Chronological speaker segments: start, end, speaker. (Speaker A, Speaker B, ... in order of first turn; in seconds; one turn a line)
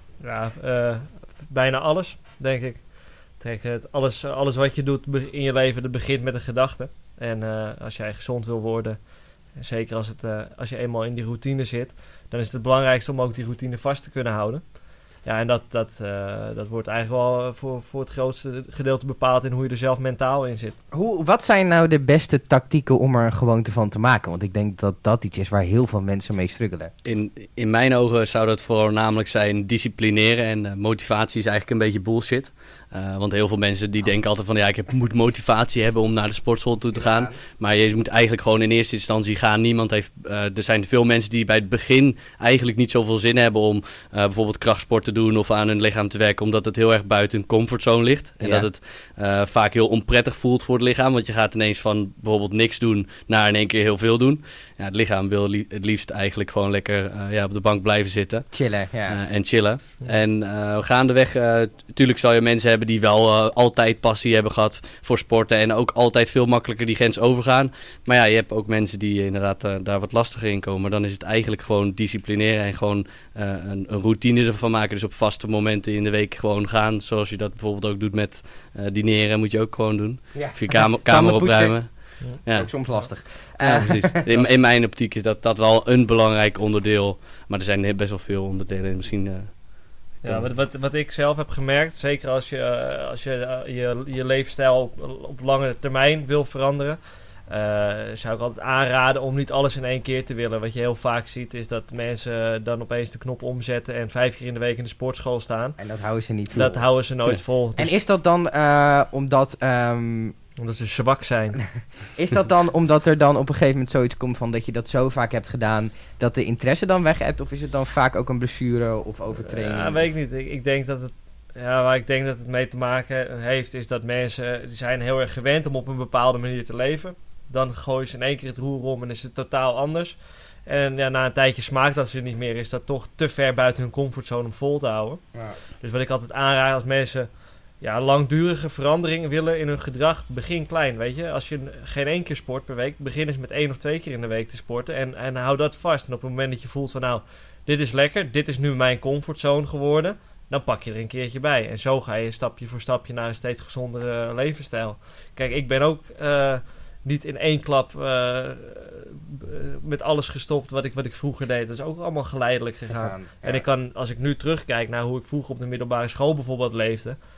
Speaker A: 0.2-20.8
Speaker B: 20.9-26.9
Speaker C: 27.1-58.5
Speaker B: 36.9-37.4
Speaker B: 48.4-48.7
Speaker B: 58.5-59.2
Speaker C: 59.1-82.7
Speaker B: 80.3-84.2
Speaker C: 83.6-90.5
Speaker A: 90.2-105.8
Speaker B: 105.8-106.8
Speaker A: 106.5-107.9
Speaker B: 107.8-110.4
Speaker A: 110.6-111.6
Speaker B: 112.2-120.0
Speaker A: 119.4-135.2
Speaker A: 135.8-137.3
Speaker A: 137.8-167.2
Speaker B: 162.9-163.7